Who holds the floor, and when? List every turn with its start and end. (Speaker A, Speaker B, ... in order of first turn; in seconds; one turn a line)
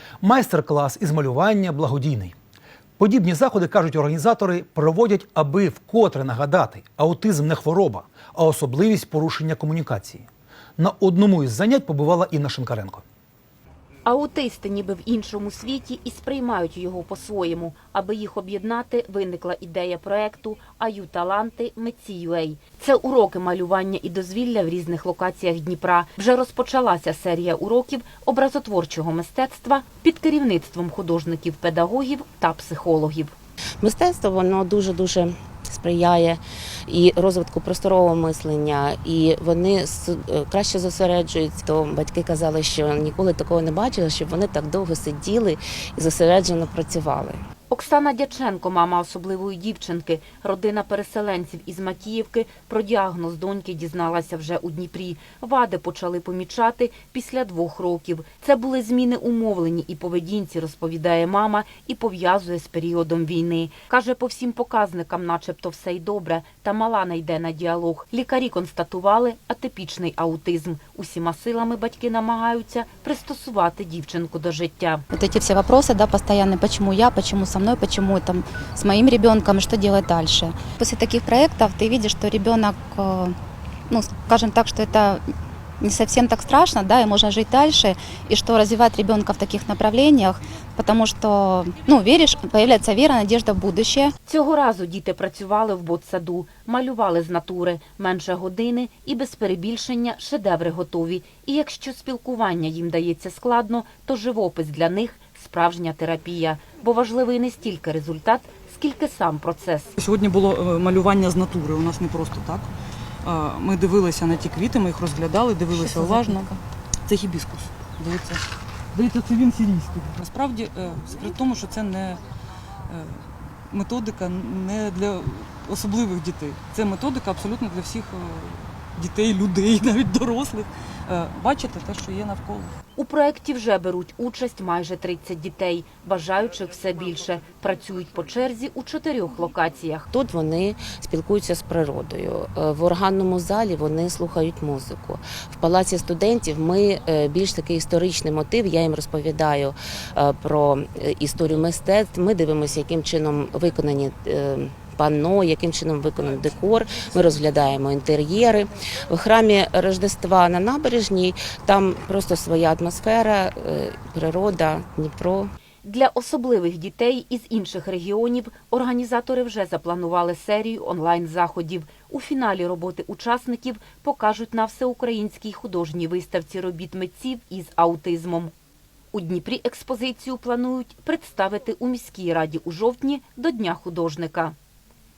Speaker A: 0.2-2.4
Speaker A: 3.0-13.1
Speaker B: 5.2-5.9
Speaker B: 6.5-7.0
Speaker C: 14.1-33.4
Speaker D: 33.8-47.4
Speaker C: 47.7-75.1
Speaker B: 75.1-83.4
Speaker B: 83.9-85.2
Speaker B: 85.8-94.1
Speaker C: 94.3-110.0
Speaker E: 110.0-112.7
Speaker E: 113.2-116.4
Speaker B: 115.8-116.6
Speaker E: 117.1-122.2
Speaker E: 122.9-132.7
Speaker C: 133.0-140.1
Speaker D: 140.1-165.5
Speaker C: 165.8-178.5
Speaker C: 179.1-184.6